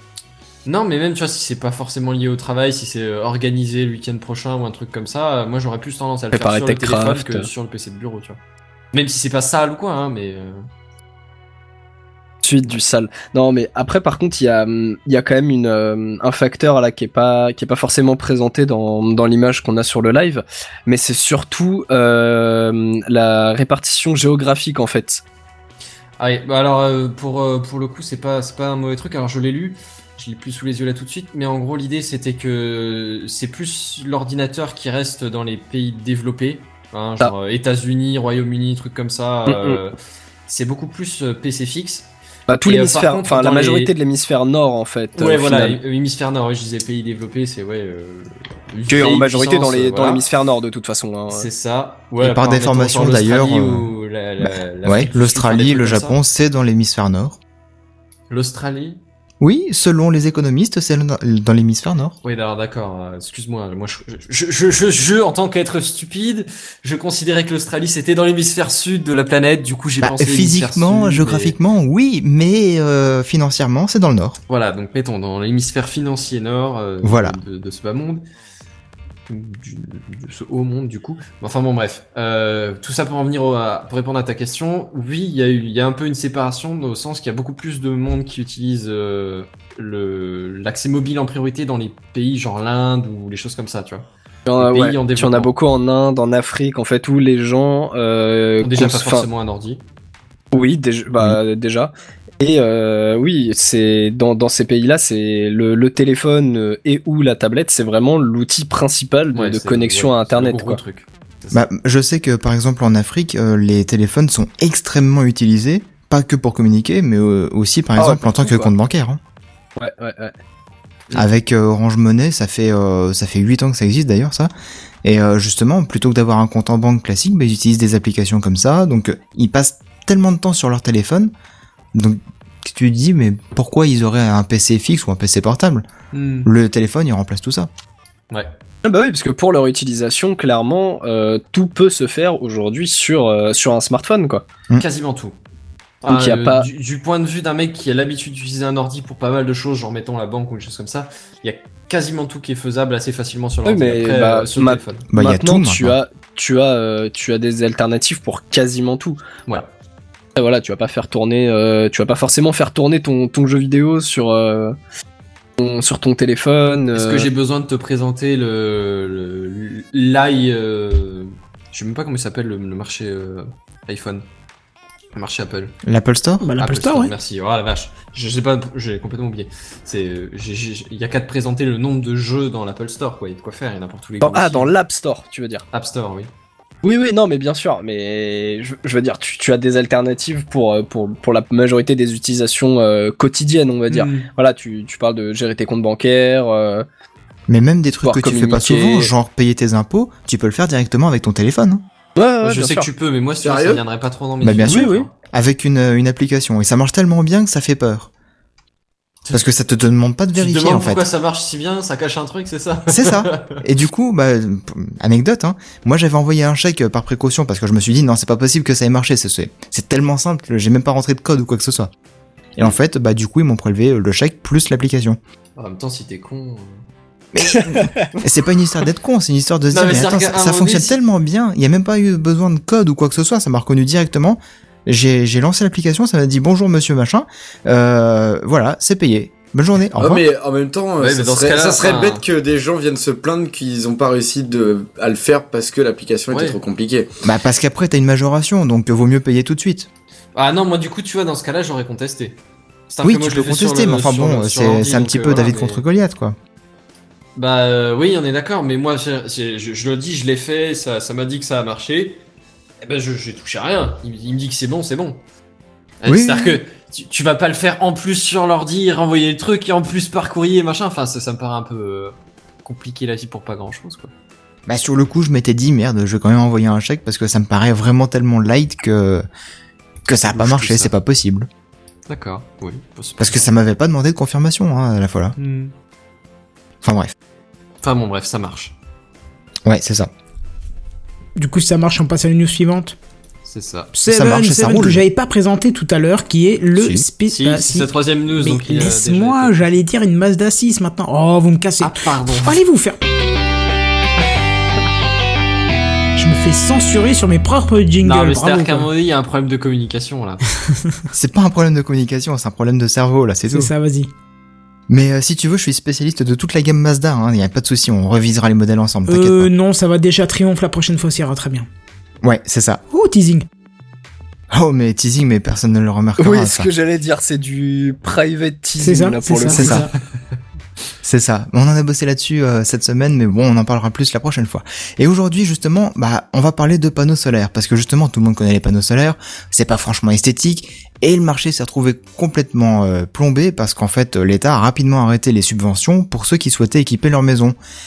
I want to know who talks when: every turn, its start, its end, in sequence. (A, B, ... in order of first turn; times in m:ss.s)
0:00.6-0:08.4 A
0:06.3-0:07.5 B
0:08.9-0:10.6 A
0:12.4-0:25.2 B
0:26.2-0:42.1 A
0:39.4-0:39.8 B
0:42.5-0:45.8 B
0:42.6-0:43.9 A
0:45.2-0:50.2 A
0:48.9-0:51.4 B
0:51.3-0:56.1 A
0:52.2-0:57.4 C
0:58.3-0:59.0 A
0:59.4-1:02.1 C
1:02.2-1:11.5 A
1:10.0-1:14.4 C
1:14.5-1:18.2 A
1:17.0-1:17.4 C
1:19.3-1:34.0 A
1:34.5-1:39.3 B
1:34.6-1:35.5 A
1:38.6-1:39.8 A
1:40.5-1:50.8 B
1:49.3-1:51.6 A
1:51.5-1:59.2 C
1:58.0-1:58.7 B
1:59.8-2:00.3 B
2:01.1-2:04.5 C
2:05.0-2:11.3 C
2:11.9-2:15.9 C
2:16.1-2:16.5 A
2:16.4-2:17.7 C
2:18.8-2:24.4 B
2:24.7-2:25.3 A
2:26.0-2:35.1 A
2:26.1-2:26.7 B
2:33.6-2:39.2 B
2:35.1-2:36.0 C
2:40.4-2:44.8 B
2:45.6-2:47.3 B
2:46.9-2:54.2 A
2:55.1-2:55.8 A
2:55.8-2:56.4 C
2:56.4-2:57.1 D
2:56.6-3:04.7 A
3:04.2-3:05.6 B
3:05.7-3:06.3 A
3:06.8-3:16.8 B
3:13.9-3:14.3 A
3:17.5-3:21.8 C
3:18.0-3:19.1 B
3:22.2-3:22.9 B
3:22.4-3:25.1 A
3:23.4-3:23.8 E
3:24.4-3:28.1 C
3:24.7-3:25.0 B
3:29.3-3:31.0 C
3:30.4-3:33.6 A
3:32.9-3:41.9 C
3:42.6-3:45.2 C
3:45.6-3:46.8 A
3:47.3-4:00.2 C
3:49.7-3:51.0 A
4:00.0-4:07.1 E
4:01.0-4:02.2 A
4:06.3-4:06.6 A
4:07.2-4:09.9 C
4:10.3-4:12.4 A
4:12.9-4:15.8 A
4:13.0-4:16.4 C
4:17.4-4:22.2 A
4:22.8-4:25.2 A
4:26.0-4:34.1 A
4:26.0-4:26.6 C
4:34.7-4:39.2 C
4:40.1-4:41.5 C
4:40.3-4:40.9 A
4:42.1-4:43.4 A
4:43.2-4:45.3 C
4:45.4-4:45.7 A
4:46.8-4:47.1 C
4:47.8-4:48.7 A
4:49.6-4:50.1 C
4:51.4-4:52.9 D
4:53.4-4:53.9 A
4:53.9-5:03.0 D
4:54.1-4:55.0 C
4:56.8-4:57.0 C
4:57.3-4:59.8 A
5:01.8-5:02.6 A
5:06.2-5:08.9 D
5:08.0-5:10.4 A
5:10.7-5:11.0 D
5:11.1-5:13.7 C
5:13.5-5:14.1 D
5:14.9-5:19.5 C
5:19.1-5:21.7 D
5:22.2-5:22.8 C
5:22.9-5:23.4 D
5:24.5-5:26.7 C
5:26.2-5:29.8 B
5:28.8-5:29.8 D
5:29.5-5:29.9 C
5:31.0-5:47.6 C